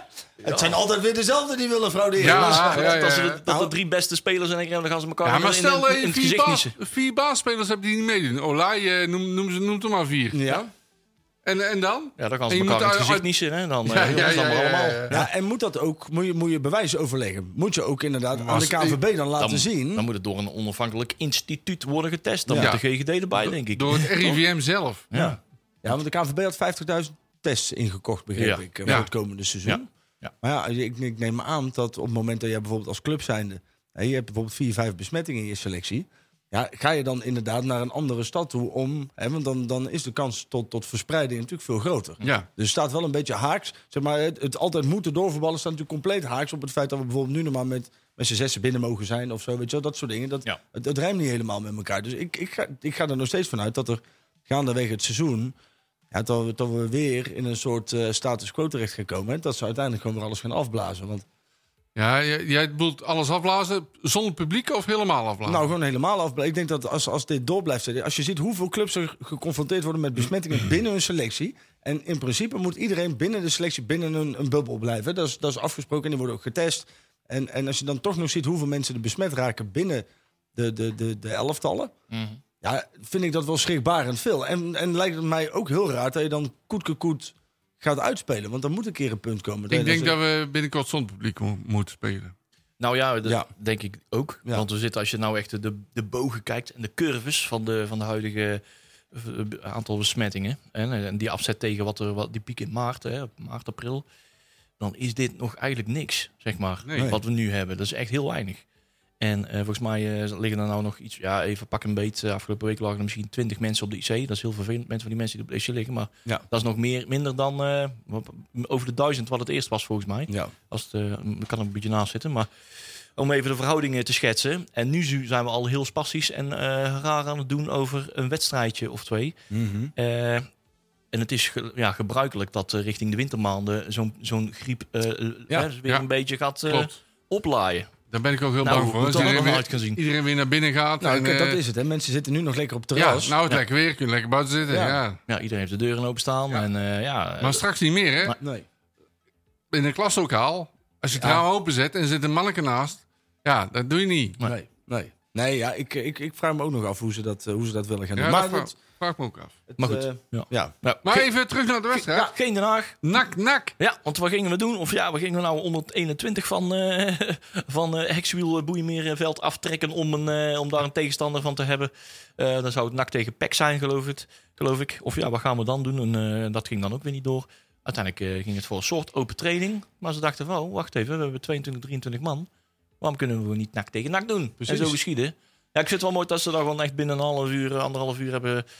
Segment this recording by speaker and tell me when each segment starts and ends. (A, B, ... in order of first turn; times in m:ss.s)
0:00.4-0:03.7 A
0:00.4-0:00.8 B
0:02.2-0:03.4 C
0:02.2-0:06.8 B
0:05.2-0:10.5 C
0:10.3-0:10.7 A
0:11.4-0:13.3 C
0:12.2-0:15.2 B
0:13.8-0:15.2 C
0:15.1-0:20.1 A
0:18.4-0:19.0 C
0:19.4-0:24.4 B
0:22.5-0:22.8 A
0:23.4-0:25.1 C
0:25.1-0:25.4 B
0:25.1-0:29.8 A
0:28.4-0:29.0 B
0:29.7-0:30.3 B
0:30.4-0:55.6 A
0:42.2-0:42.5 C
0:56.1-1:01.2 A
1:02.0-1:05.7 C
1:05.4-1:21.9 A
1:22.1-1:22.4 B
1:22.6-1:30.2 A
1:29.7-1:32.3 C
1:32.8-1:44.1 B
1:44.8-1:48.6 B
1:46.9-1:47.1 C
1:49.2-2:02.5 B
2:03.2-2:09.4 B
2:09.5-2:09.9 A
2:10.0-2:10.5 B
2:11.1-2:17.9 B
2:16.7-2:16.9 C
2:18.1-2:21.6 C
2:18.6-2:20.0 B
2:21.0-2:23.4 A
2:22.9-2:25.2 C
2:24.7-2:25.0 A
2:25.3-2:27.6 B
2:27.4-2:28.3 C
2:28.4-2:28.7 A
2:29.7-2:34.4 C
2:31.2-2:31.4 A
2:34.4-2:38.7 A
2:38.2-2:39.6 C
2:39.7-2:40.7 A
2:39.8-2:41.3 B
2:41.0-2:42.3 C
2:42.1-2:42.3 A
2:42.2-2:43.0 B
2:43.0-2:43.7 C
2:43.8-3:02.5 B
3:03.0-3:08.6 B
3:04.6-3:05.0 A